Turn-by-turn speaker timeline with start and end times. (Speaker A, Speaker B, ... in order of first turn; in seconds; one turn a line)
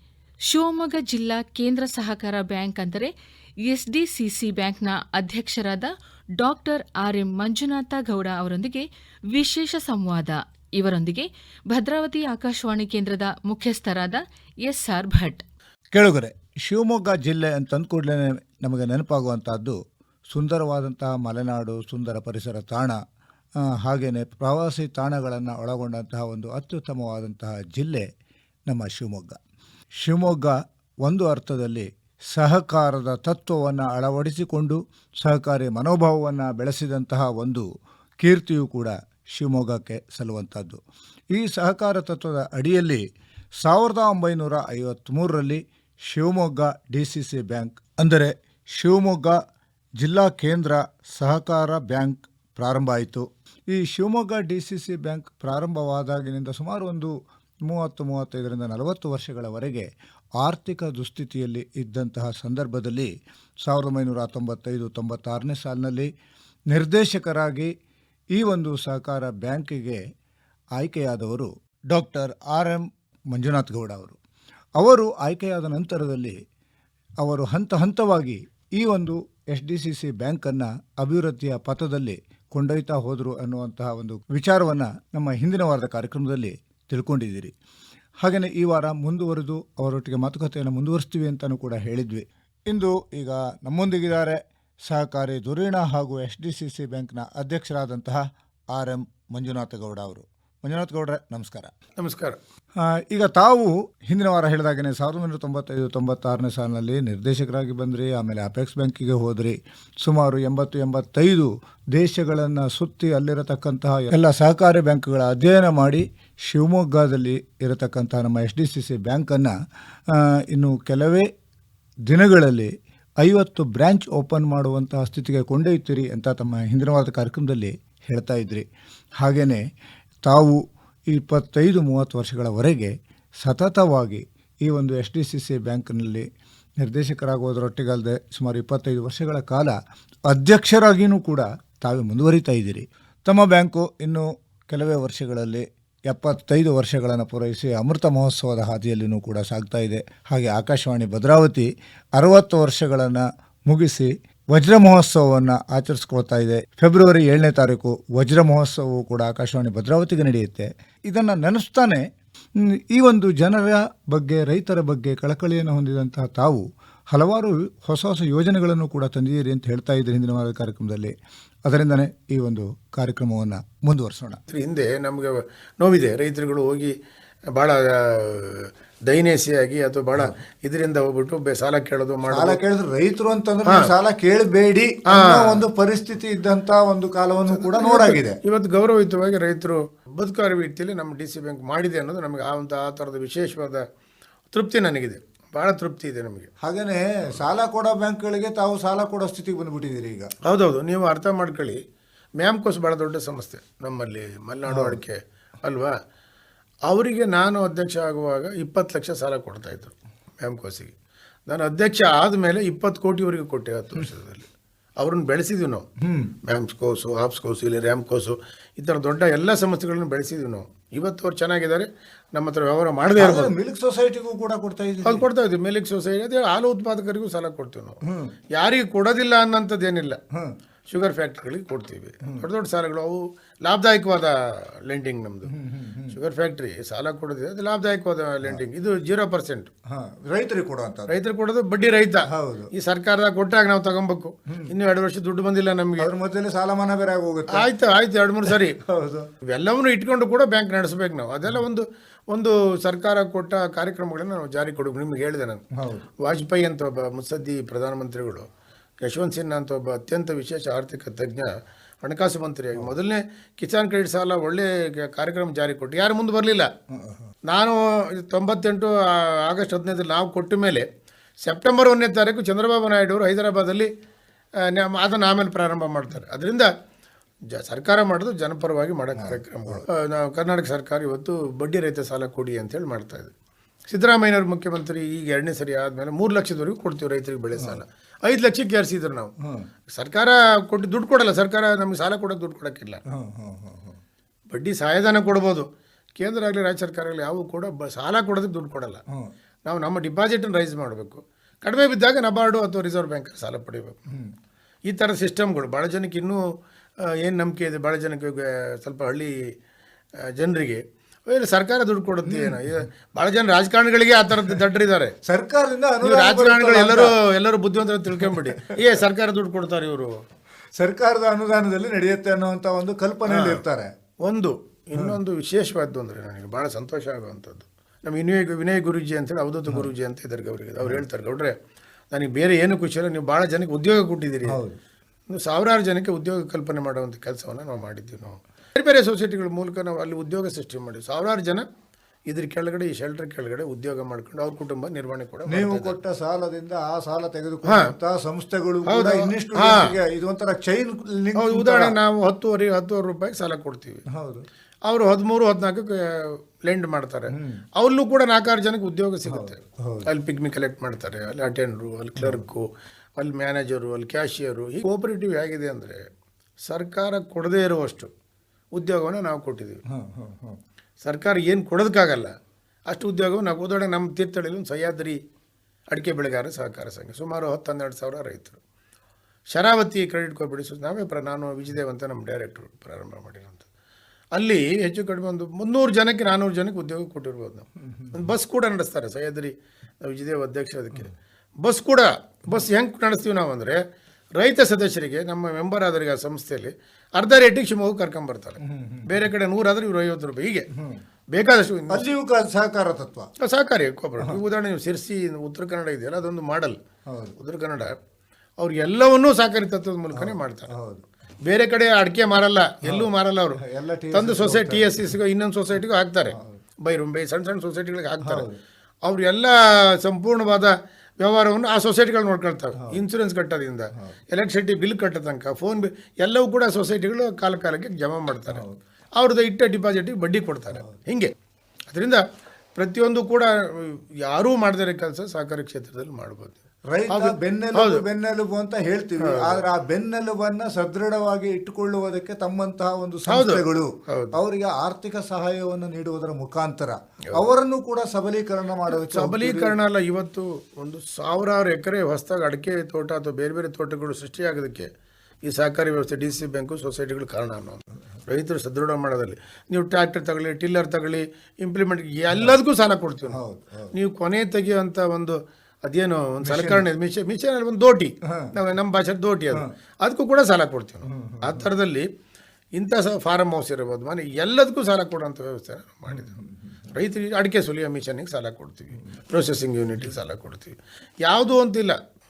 Speaker A: 0.5-3.1
Speaker A: 3.6-15.4
Speaker B: 15.9-19.8
Speaker B: 20.3-23.0
Speaker B: 23.6-28.1
Speaker B: 28.7-29.4
Speaker B: 30.0-37.7
Speaker B: 38.2-40.8
Speaker B: 41.3-43.0
Speaker B: 43.6-49.4
Speaker B: 50.0-59.9
Speaker B: 60.4-63.1
Speaker B: 63.6-66.1
Speaker B: 66.7-67.7
Speaker B: 68.3-70.0
Speaker B: 70.8-74.2
Speaker B: 74.8-76.4
Speaker B: 77.2-87.5
Speaker B: 88.2-101.7
Speaker C: 102.0-102.4
Speaker B: 102.8-119.5
Speaker B: 120.1-121.3
Speaker B: 122.1-128.7
Speaker B: 129.2-129.6
Speaker B: 130.3-136.3
Speaker B: 136.8-139.8
Speaker B: 140.3-171.1
Speaker B: 171.7-174.4
Speaker C: 174.5-176.9
Speaker C: 177.5-182.6
Speaker B: 182.3-188.4
Speaker C: 183.7-183.9
Speaker C: 185.1-185.6
Speaker C: 187.5-193.8
Speaker C: 194.5-196.5
Speaker B: 196.6-200.3
Speaker C: 200.4-201.8
Speaker C: 202.4-205.9
Speaker B: 204.7-205.0
Speaker C: 206.9-210.9
Speaker C: 211.5-215.8
Speaker B: 216.0-216.3
Speaker C: 216.4-223.5
Speaker B: 223.2-225.2
Speaker C: 225.0-228.0
Speaker B: 228.0-228.3
Speaker C: 228.5-230.2
Speaker C: 230.9-234.3
Speaker C: 234.8-235.5
Speaker B: 235.5-236.2
Speaker C: 236.1-239.7
Speaker B: 239.9-241.2
Speaker C: 241.1-246.1
Speaker B: 242.3-242.7
Speaker B: 244.5-244.7
Speaker B: 246.0-247.7
Speaker C: 247.5-248.8
Speaker B: 248.5-249.3
Speaker C: 249.4-255.6
Speaker B: 255.8-256.1
Speaker C: 256.2-258.4
Speaker C: 259.0-266.7
Speaker B: 266.9-267.3
Speaker C: 267.4-270.9
Speaker C: 271.4-273.9
Speaker C: 274.6-276.7
Speaker C: 277.5-283.3
Speaker B: 279.1-279.8
Speaker C: 283.9-289.3
Speaker B: 287.6-287.8
Speaker B: 289.4-289.7
Speaker C: 289.9-293.0
Speaker B: 293.1-294.0
Speaker C: 294.5-299.0
Speaker C: 299.6-304.0
Speaker C: 304.9-306.4
Speaker C: 307.0-309.4
Speaker C: 310.2-315.1
Speaker B: 312.2-312.8
Speaker B: 315.2-317.1
Speaker C: 316.0-320.1
Speaker B: 318.1-318.8
Speaker B: 320.8-323.9
Speaker C: 323.3-323.6
Speaker C: 324.2-331.5
Speaker C: 332.1-334.6
Speaker B: 334.4-334.8
Speaker C: 335.3-341.6
Speaker C: 342.3-345.9
Speaker B: 345.5-352.0
Speaker C: 347.6-347.9
Speaker C: 348.9-349.9
Speaker C: 351.4-354.0
Speaker B: 354.1-354.4
Speaker C: 354.9-366.1
Speaker B: 357.3-357.6
Speaker B: 359.3-360.1
Speaker B: 362.2-362.4
Speaker C: 366.7-368.1
Speaker C: 368.7-369.8
Speaker B: 369.9-370.6
Speaker C: 371.0-372.3
Speaker C: 372.9-375.2
Speaker C: 375.9-378.6
Speaker C: 379.5-383.6
Speaker C: 384.4-393.8
Speaker C: 394.4-400.7
Speaker B: 398.6-399.2
Speaker B: 400.7-401.0
Speaker C: 401.3-402.1
Speaker B: 401.9-403.3
Speaker C: 403.4-406.8
Speaker B: 407.1-407.3
Speaker C: 407.4-408.0
Speaker C: 408.6-410.7
Speaker B: 410.1-411.1
Speaker C: 411.4-413.6
Speaker B: 412.8-414.9
Speaker C: 414.1-418.5
Speaker B: 416.3-416.6
Speaker B: 418.2-418.6
Speaker C: 419.0-428.6
Speaker B: 428.5-428.8
Speaker C: 429.2-431.3
Speaker C: 431.9-432.2
Speaker C: 432.8-436.6
Speaker B: 436.9-449.7
Speaker C: 437.1-438.0
Speaker C: 439.2-439.6
Speaker C: 443.3-444.4
Speaker C: 448.9-454.9
Speaker C: 455.4-463.4
Speaker B: 463.3-463.9
Speaker C: 463.9-472.1
Speaker B: 466.4-466.8
Speaker B: 468.2-468.5
Speaker B: 471.0-471.7
Speaker C: 472.8-476.4
Speaker B: 476.1-476.5
Speaker C: 476.9-482.0